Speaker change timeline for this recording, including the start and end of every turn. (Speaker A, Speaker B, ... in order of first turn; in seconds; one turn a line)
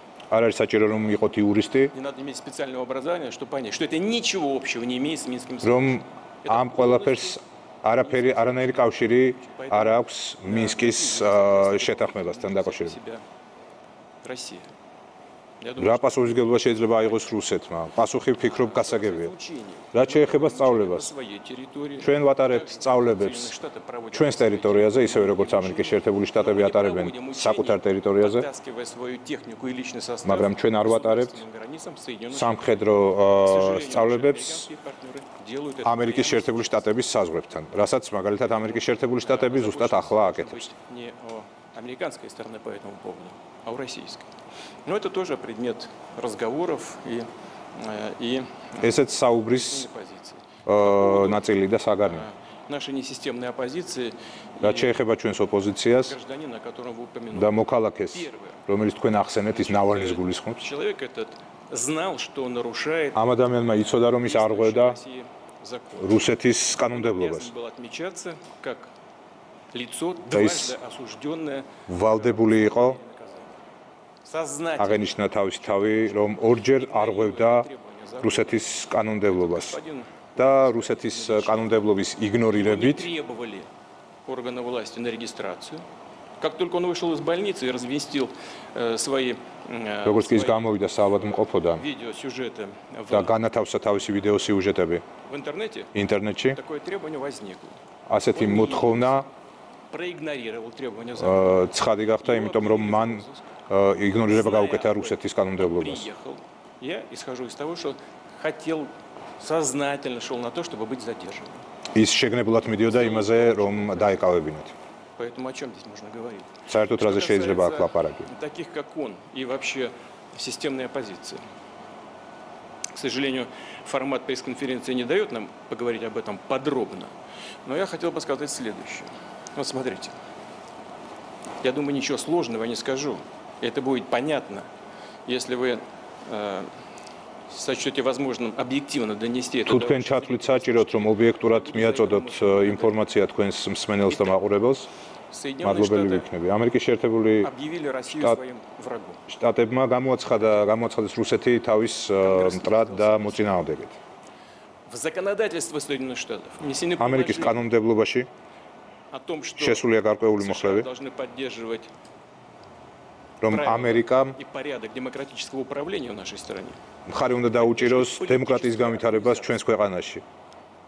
Speaker A: 0.3-1.9
Speaker B: 1.9-7.4
Speaker A: 5.6-12.9
Speaker B: 8.0-13.2
Speaker B: 14.2-14.7
Speaker B: 15.6-16.4
Speaker A: 15.8-19.3
Speaker B: 18.4-32.8
Speaker A: 19.9-21.1
Speaker A: 22.0-23.5
Speaker A: 24.1-28.5
Speaker A: 30.2-31.4
Speaker A: 32.3-34.7
Speaker B: 33.4-36.9
Speaker A: 35.8-40.7
Speaker B: 38.7-44.3
Speaker B: 44.8-55.0
Speaker A: 48.8-49.9
Speaker A: 50.6-52.3
Speaker A: 54.6-56.1
Speaker B: 56.0-58.6
Speaker A: 57.3-60.6
Speaker B: 59.5-66.3
Speaker A: 63.1-65.0
Speaker A: 66.0-67.5
Speaker B: 66.9-68.9
Speaker B: 69.7-73.5
Speaker A: 70.3-70.8
Speaker A: 71.9-73.0
Speaker B: 74.2-78.6
Speaker A: 74.8-77.7
Speaker A: 78.2-79.8
Speaker B: 79.2-81.9
Speaker A: 80.3-83.1
Speaker B: 82.5-83.7
Speaker B: 84.2-85.8
Speaker B: 86.4-93.3
Speaker A: 90.0-91.8
Speaker A: 93.1-95.0
Speaker B: 95.2-95.9
Speaker A: 95.9-96.6
Speaker B: 96.5-97.8
Speaker A: 98.1-99.3
Speaker B: 98.3-99.2
Speaker B: 99.9-103.5
Speaker A: 101.2-106.0
Speaker B: 104.2-111.6
Speaker A: 111.9-114.7
Speaker B: 112.8-114.3
Speaker B: 115.2-121.4
Speaker A: 116.7-118.3
Speaker B: 122.9-127.1
Speaker B: 127.6-130.1
Speaker B: 131.6-134.7
Speaker B: 135.2-136.7
Speaker B: 137.5-143.1
Speaker A: 139.7-144.9
Speaker B: 144.1-144.3
Speaker B: 145.3-146.3
Speaker A: 145.6-147.5
Speaker B: 147.4-149.2
Speaker A: 148.1-148.4
Speaker A: 149.3-153.9
Speaker B: 152.2-153.7
Speaker B: 154.9-157.6
Speaker A: 157.0-158.3
Speaker B: 159.1-161.9
Speaker A: 159.5-160.9
Speaker A: 163.4-164.4
Speaker B: 163.5-166.8
Speaker A: 167.1-170.2
Speaker B: 167.4-169.6